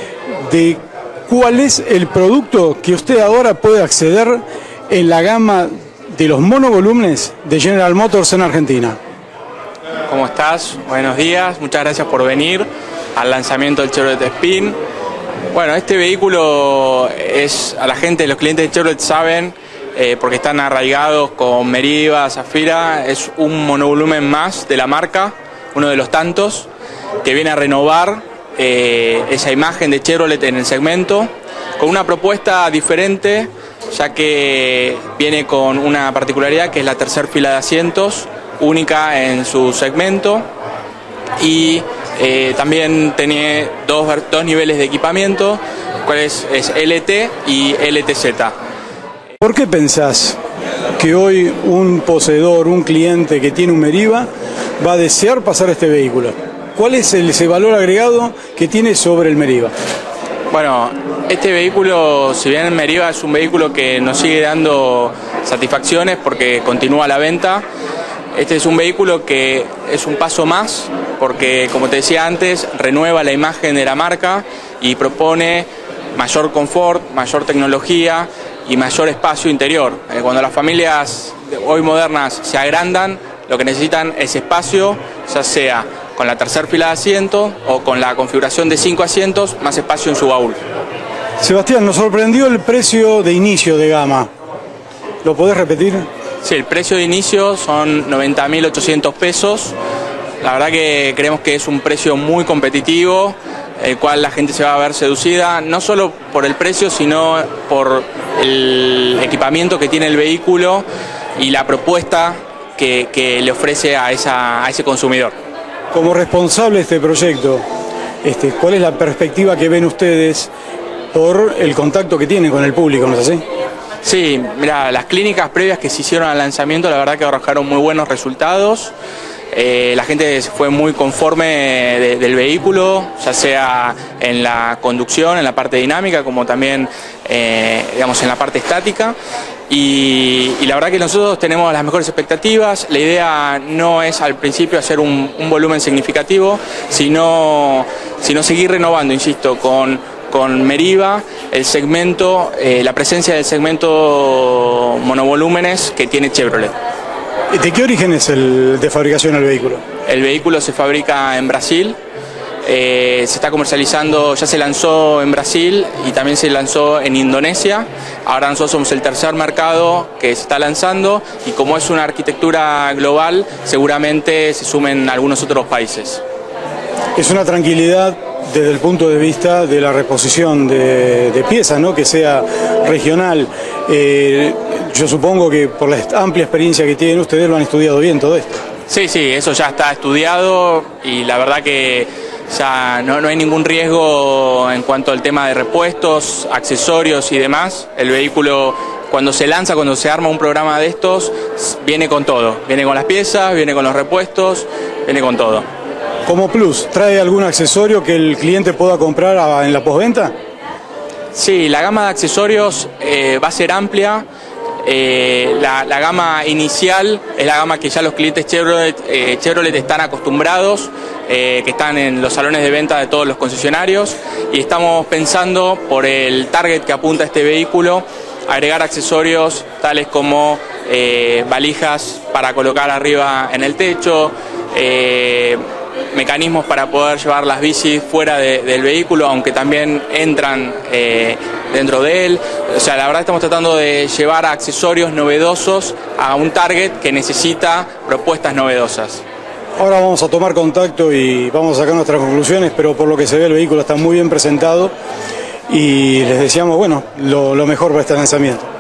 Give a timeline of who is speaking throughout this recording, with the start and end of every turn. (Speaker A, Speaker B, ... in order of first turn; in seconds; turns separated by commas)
Speaker A: 0.3-9.0, Speaker B: 10.1-14.8, Speaker B: 15.5-26.7, Speaker B: 27.2-40.5, Speaker B: 41.4-48.5, Speaker A: 49.4-50.4, Speaker A: 51.0-54.3, Speaker A: 54.8-59.7, Speaker B: 60.5-67.7, Speaker B: 68.3-90.6, Speaker A: 91.4-94.3, Speaker A: 95.2-96.1, Speaker B: 96.4-99.8, Speaker B: 100.4-110.8, Speaker B: 111.4-115.3, Speaker A: 115.9-117.6, Speaker A: 118.2-120.5, Speaker A: 121.1-123.4, Speaker B: 124.0-128.9, Speaker B: 129.5-139.2, Speaker B: 139.7-156.7, Speaker A: 157.5-159.8, Speaker B: 160.1-162.0, Speaker B: 162.6-176.2, Speaker A: 177.2-188.6, Speaker B: 188.9-205.7, Speaker A: 206.2-210.3, Speaker B: 211.3-214.2, Speaker B: 214.8-249.2, Speaker A: 249.8-254.9, Speaker A: 255.7-258.6